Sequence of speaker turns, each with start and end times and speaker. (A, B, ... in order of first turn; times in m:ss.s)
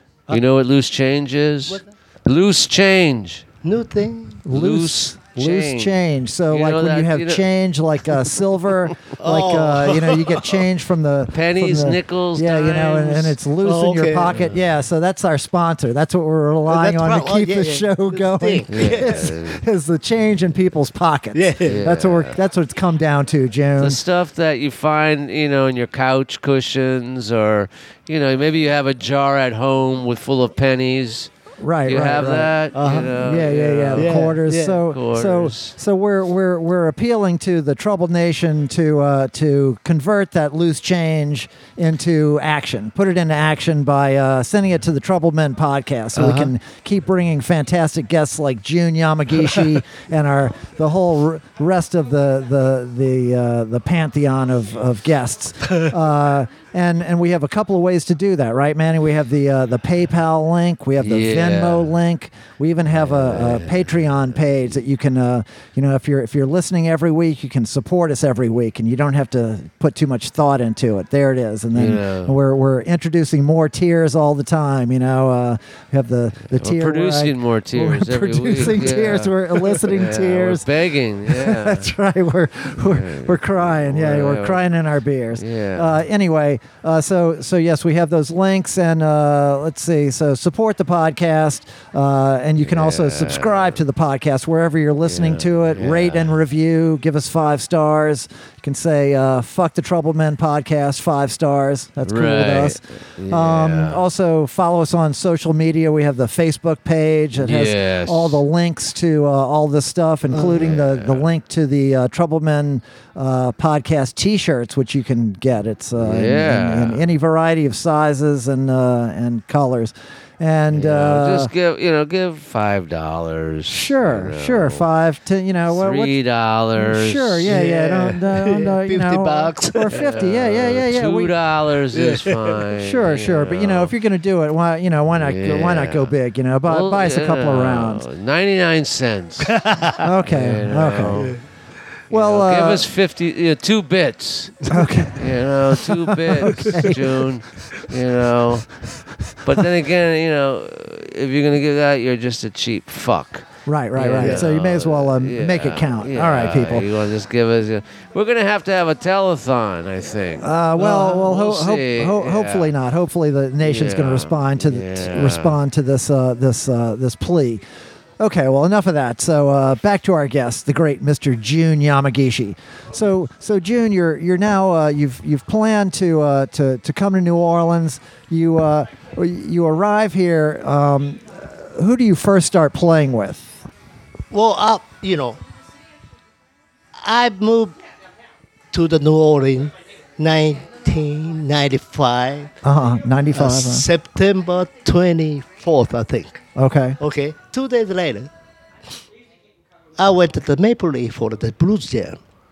0:00.3-0:03.4 A
0:03.6-0:04.4 B
0:04.4-0:24.0 C
0:04.5-0:06.0 A
0:06.5-0:07.4 A
0:09.2-0:10.6 B
0:11.3-0:13.4 A
0:13.6-0:14.4 B
0:14.3-0:14.6 A
0:16.7-0:19.3 B
0:18.7-0:19.6 A
0:21.3-0:21.8 B
0:21.6-0:22.4 A
0:23.8-0:31.3 A
0:31.6-1:20.6 C
0:31.8-0:34.1 A
0:32.8-0:33.0 B
0:33.9-0:34.8 B
0:34.9-0:35.7 A
0:46.1-0:46.5 B
1:01.0-1:01.9 A
1:02.9-1:04.1 A
1:11.7-1:12.3 A
1:16.5-1:21.9 A
1:21.2-2:01.5 C
1:22.8-1:24.6 A
1:25.4-1:26.0 A
1:32.6-1:33.7 A
1:35.1-1:36.4 A
1:42.0-1:44.0 A
1:47.4-1:48.4 A
1:50.3-1:50.6 B
1:50.5-1:51.2 A
1:56.0-1:57.0 A
2:00.7-2:04.8 A
2:03.7-2:06.1 C
2:05.7-2:07.6 A
2:06.8-2:11.3 C
2:07.4-2:10.0 B
2:09.9-2:13.9 A
2:11.9-2:12.6 B
2:12.7-2:18.0 C
2:15.1-2:16.1 A
2:16.6-2:19.5 A
2:19.4-2:20.0 B
2:20.0-2:21.3 C
2:20.2-2:21.3 A
2:22.1-2:28.7 A
2:22.1-2:22.9 C
2:24.7-2:25.3 C
2:25.8-2:27.2 C
2:29.4-2:42.7 A
2:33.7-2:36.9 C
2:34.2-2:34.4 B
2:40.4-2:47.6 C
2:43.6-2:45.6 A
2:48.2-3:03.6 C
3:04.3-3:05.4 B
3:07.0-3:07.7 B
3:08.7-3:12.5 B
3:12.6-3:13.8 C
3:13.3-3:16.4 B
3:16.5-3:17.0 C
3:17.0-3:18.3 B
3:20.0-3:22.2 B